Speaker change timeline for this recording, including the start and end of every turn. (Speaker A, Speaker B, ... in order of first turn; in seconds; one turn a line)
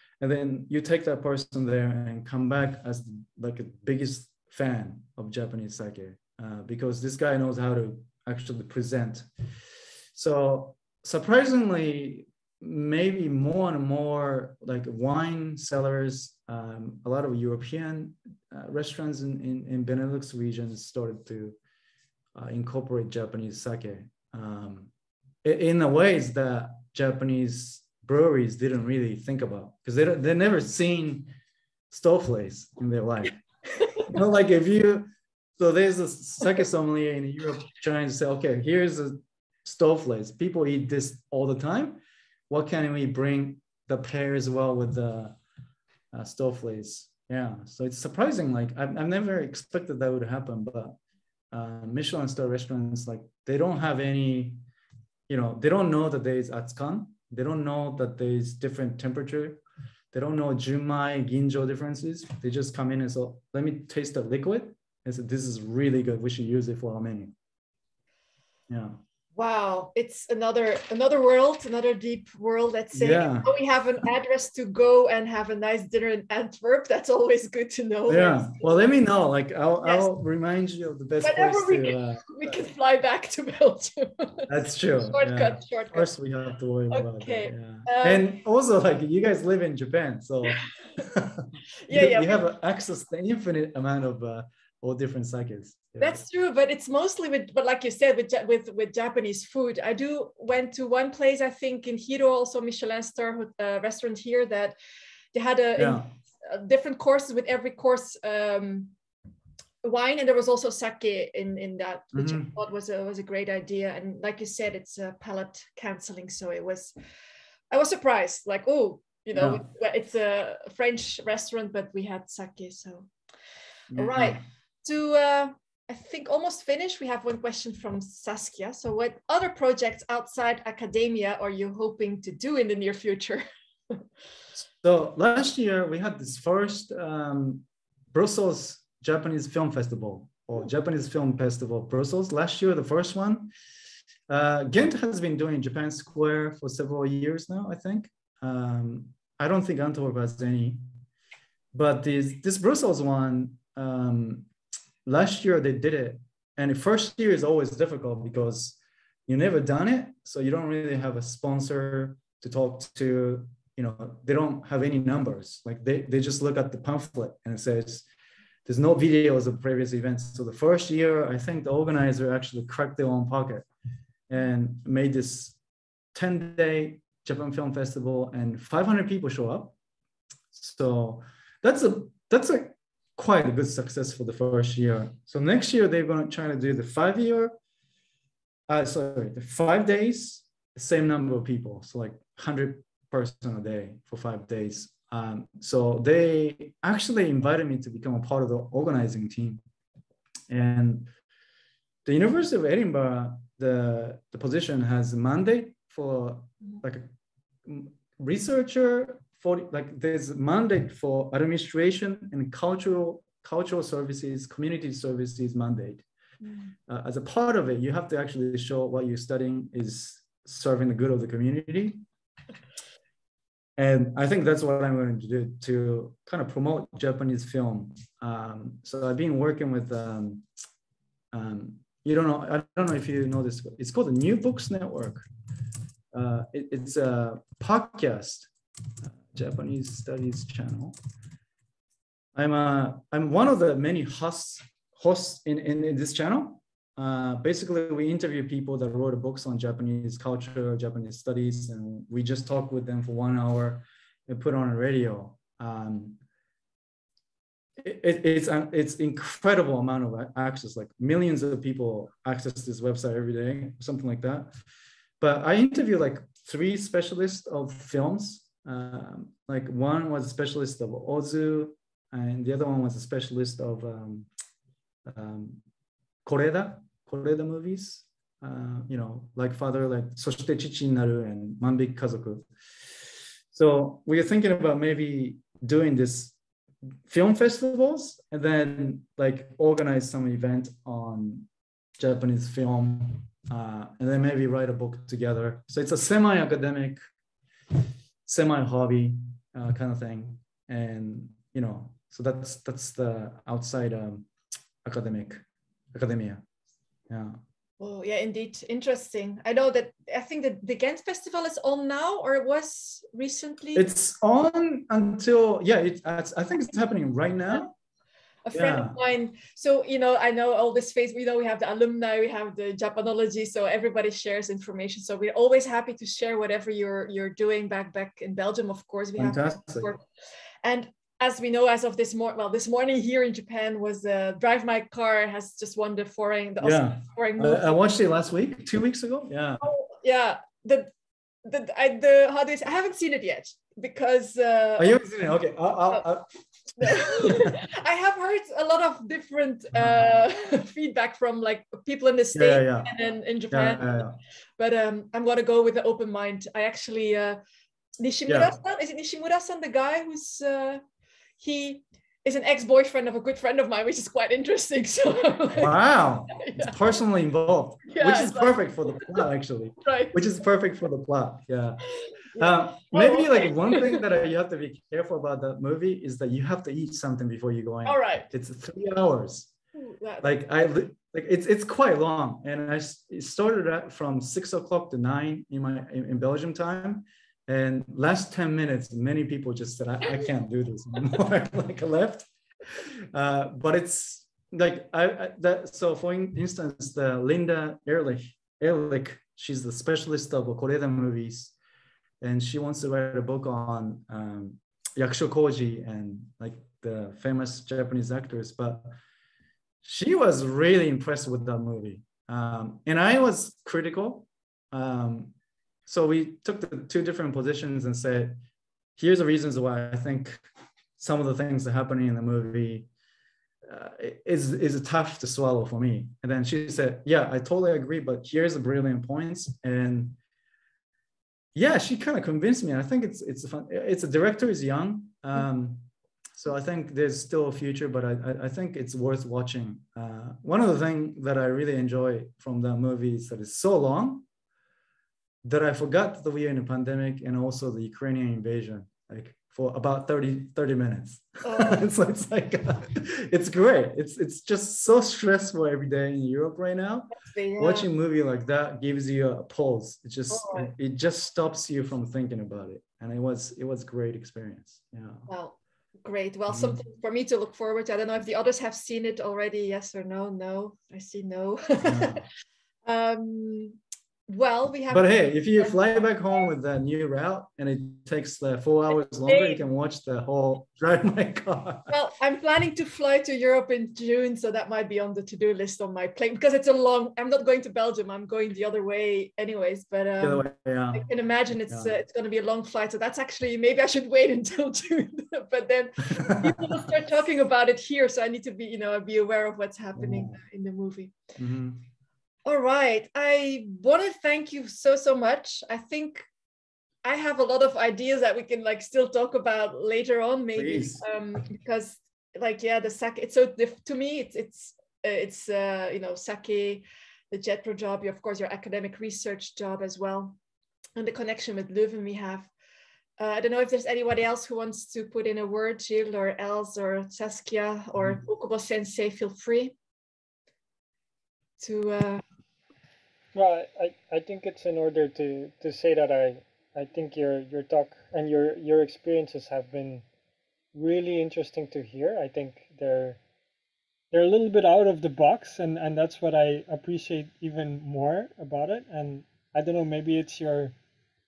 Speaker A: 0.2-9.3
Speaker A: 10.2-21.6
Speaker A: 22.3-24.9
Speaker A: 25.4-31.3
Speaker A: 31.9-33.4
Speaker A: 34.0-45.4
Speaker A: 46.1-51.0
Speaker A: 51.5-54.6
Speaker A: 55.3-67.3
Speaker A: 68.7-69.0
Speaker B: 69.3-78.7
Speaker A: 72.9-73.5
Speaker A: 78.1-82.3
Speaker B: 79.8-80.1
Speaker B: 81.2-86.1
Speaker A: 84.5-96.2
Speaker B: 86.9-88.3
Speaker B: 91.9-92.4
Speaker B: 96.0-104.8
Speaker B: 105.3-108.9
Speaker A: 105.8-106.1
Speaker B: 109.8-116.9
Speaker A: 112.1-112.5
Speaker B: 117.7-123.1
Speaker A: 119.3-119.6
Speaker A: 123.9-124.4
Speaker B: 124.0-134.0
Speaker A: 134.6-143.5
Speaker A: 144.3-150.8
Speaker A: 151.7-154.5
Speaker A: 155.1-168.1
Speaker A: 168.7-173.7
Speaker A: 174.3-175.6
Speaker A: 176.1-179.8
Speaker A: 180.5-187.6
Speaker A: 188.7-199.6
Speaker A: 200.5-201.1
Speaker A: 202.1-207.1
Speaker A: 207.7-216.1
Speaker A: 216.9-222.0
Speaker A: 223.8-230.4
Speaker A: 231.3-235.2
Speaker A: 236.1-238.5
Speaker A: 239.0-241.0
Speaker A: 242.3-256.2
Speaker A: 257.8-264.5
Speaker A: 265.2-274.3
Speaker A: 275.1-275.6
Speaker A: 276.2-282.5
Speaker A: 283.5-286.4
Speaker A: 287.1-297.0
Speaker A: 298.3-304.3
Speaker A: 304.8-305.4
Speaker A: 305.9-306.4
Speaker A: 307.1-307.4
Speaker B: 307.8-313.9
Speaker A: 313.8-317.7
Speaker B: 318.5-330.0
Speaker A: 318.5-319.0
Speaker A: 329.2-329.9
Speaker B: 330.6-337.7
Speaker A: 336.6-339.6
Speaker B: 339.6-340.9
Speaker B: 341.4-345.0
Speaker A: 344.8-346.3
Speaker A: 346.8-347.6
Speaker B: 346.8-354.0
Speaker A: 352.4-352.9
Speaker A: 353.5-354.2
Speaker B: 354.6-357.4
Speaker B: 358.0-360.8
Speaker A: 358.3-358.5
Speaker B: 361.4-365.8
Speaker A: 365.6-371.8
Speaker B: 366.3-366.8
Speaker B: 367.9-369.2
Speaker B: 369.9-370.2
Speaker B: 372.0-374.0
Speaker A: 372.4-379.5
Speaker B: 377.9-378.3
Speaker B: 379.8-380.4
Speaker A: 380.2-392.3
Speaker A: 392.8-401.6
Speaker A: 402.2-408.9
Speaker A: 409.8-415.3
Speaker A: 415.9-418.4
Speaker A: 419.0-420.4
Speaker A: 421.0-422.9
Speaker A: 423.7-430.2
Speaker A: 431.6-444.2
Speaker A: 445.4-465.3
Speaker B: 451.4-451.9
Speaker B: 457.2-457.9
Speaker B: 460.3-460.7
Speaker B: 465.3-472.2
Speaker A: 466.5-466.8
Speaker A: 471.8-472.2
Speaker B: 472.9-476.1
Speaker A: 474.9-481.9
Speaker B: 478.9-479.6
Speaker B: 481.9-501.2
Speaker A: 490.2-491.1
Speaker A: 491.7-491.9
Speaker A: 496.1-496.8
Speaker A: 500.0-500.4
Speaker A: 501.4-501.8
Speaker B: 502.5-506.3
Speaker B: 507.0-520.4
Speaker A: 510.6-511.0
Speaker B: 521.0-522.5
Speaker B: 523.2-529.8
Speaker B: 531.6-532.2
Speaker C: 533.3-540.0
Speaker C: 540.7-543.2
Speaker C: 544.1-550.7